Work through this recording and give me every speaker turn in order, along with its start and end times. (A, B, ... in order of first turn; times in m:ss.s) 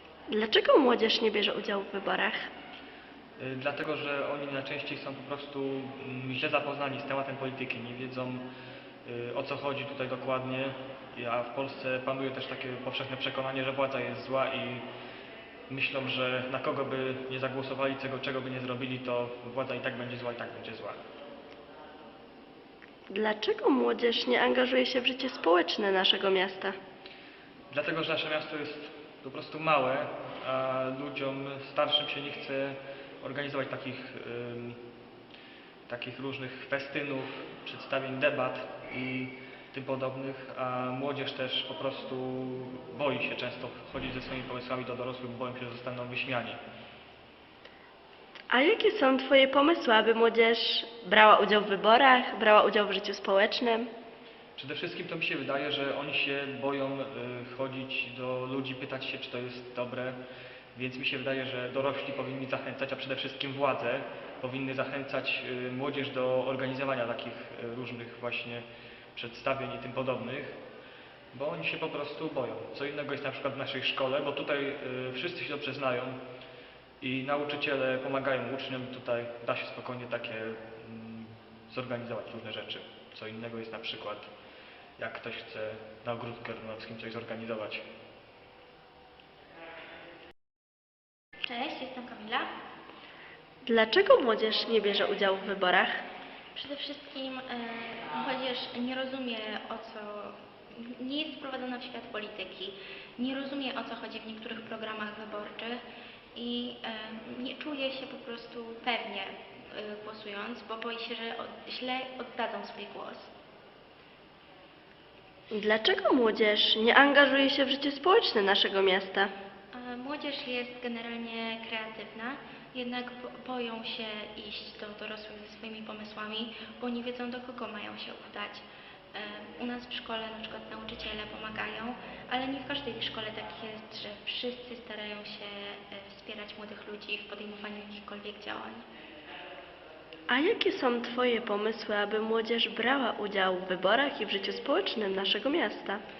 0:00.3-0:02.4 A
0:03.4-0:08.5 B
0:09.0-0:14.8 B
0:15.7-0:21.0 B
0:23.1-0:26.7 A
0:27.7-0:34.8 B
0:35.9-0:46.6 B
0:48.5-0:53.9 A
0:54.6-1:00.2 B
1:00.7-1:10.6 B
1:11.3-1:16.2 B
1:17.0-1:24.3 B
1:25.0-1:27.8 B
1:31.4-1:32.5 C
1:33.6-1:36.0 A
1:36.5-1:45.8 C
1:46.3-1:53.3 C
1:55.5-1:59.3 A
1:59.7-2:18.8 C
2:20.3-2:26.0 A